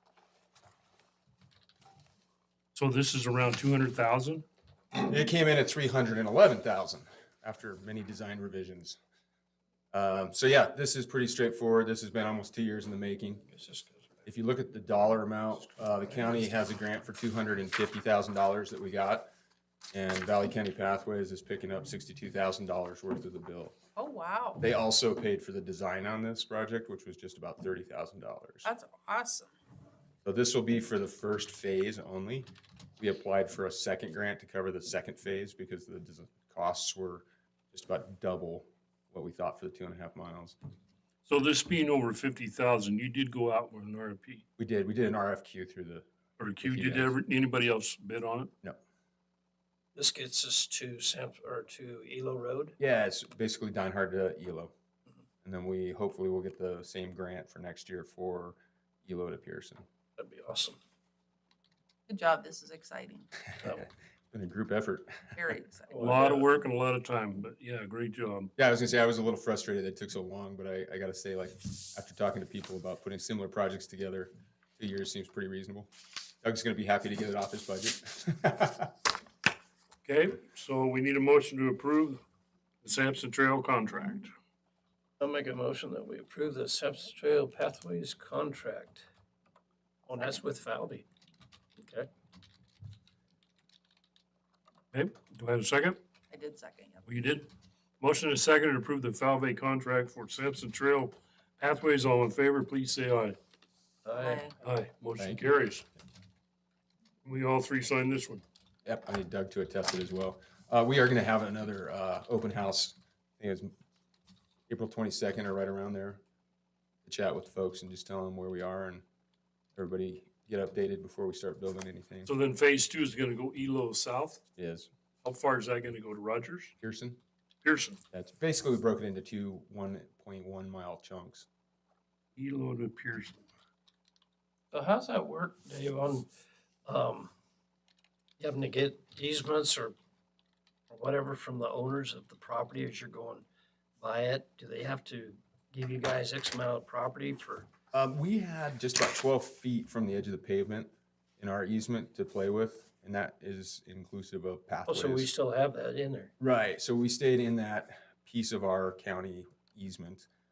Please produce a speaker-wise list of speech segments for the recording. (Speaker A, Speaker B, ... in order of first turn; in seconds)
Speaker A: 2.7-4.4, 41.2-44.4, 46.4-48.5, 66.0-68.5, 80.0-82.2, 82.8-84.3, 94.9-96.0, 97.0-97.5, 98.0-103.4, 104.6-105.8, 107.2-108.4, 122.3-124.4, 125.2-126.7, 127.6-128.0, 132.3-133.4
Speaker B: 4.9-9.0, 9.9-13.4, 14.2-19.3, 19.9-23.8, 24.6-28.7, 30.2-40.5, 44.6-46.0, 46.6-47.1, 52.8-54.7, 55.4-59.8, 63.6-65.4, 68.6-75.9, 76.4-78.9, 108.8-113.7, 114.7-116.2, 117.0-119.0, 119.8-122.3, 124.6-124.9, 126.8-127.2, 128.1-131.4, 147.9-155.3, 156.4-160.3
Speaker C: 13.5-14.2, 49.9-52.8, 60.2-60.8, 65.9-66.5, 85.2-89.0, 90.1-91.0, 91.8-92.1, 104.0-104.5, 134.7-136.3, 136.8-137.3, 138.4-139.9, 140.9-143.4, 144.0-147.7, 154.8-156.3
Speaker D: 23.9-24.6, 28.6-29.5, 62.1-63.3, 65.3-66.1, 96.3-97.0, 104.2-104.5